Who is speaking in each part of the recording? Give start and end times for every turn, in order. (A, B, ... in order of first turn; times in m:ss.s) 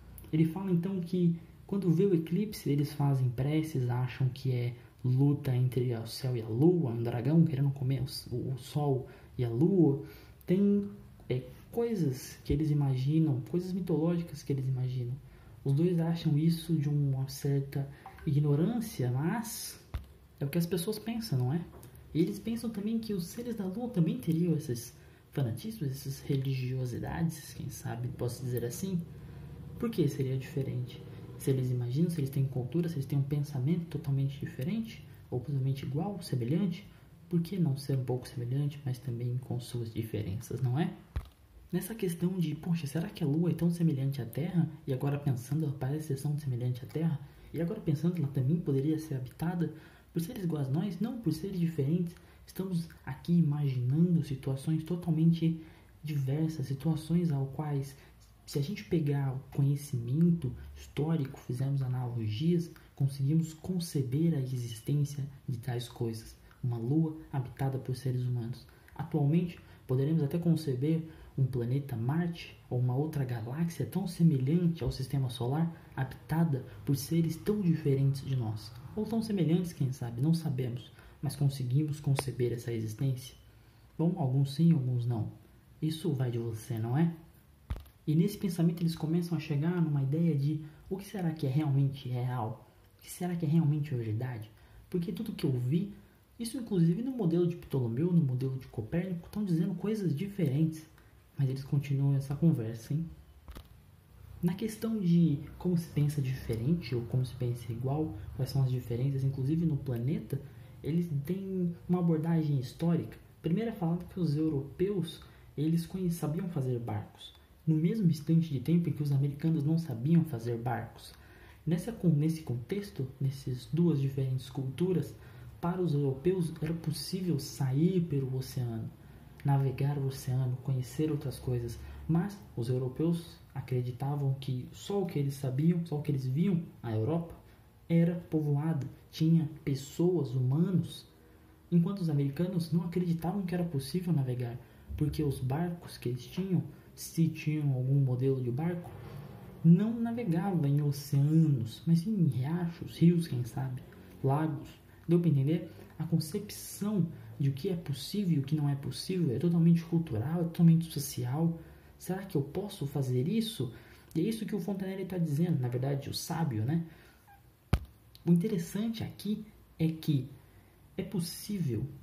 0:00.3-0:19.8 A
0:20.4-0:29.0 A
0:29.8-0:40.9 A
0:41.7-1:23.4 A
1:24.0-1:27.1 A
1:28.0-1:43.1 A
1:44.4-2:08.9 A
2:09.4-2:21.1 A
2:21.7-2:29.0 A
2:29.6-2:46.9 A
2:48.2-2:50.3 A
2:51.0-2:51.9 A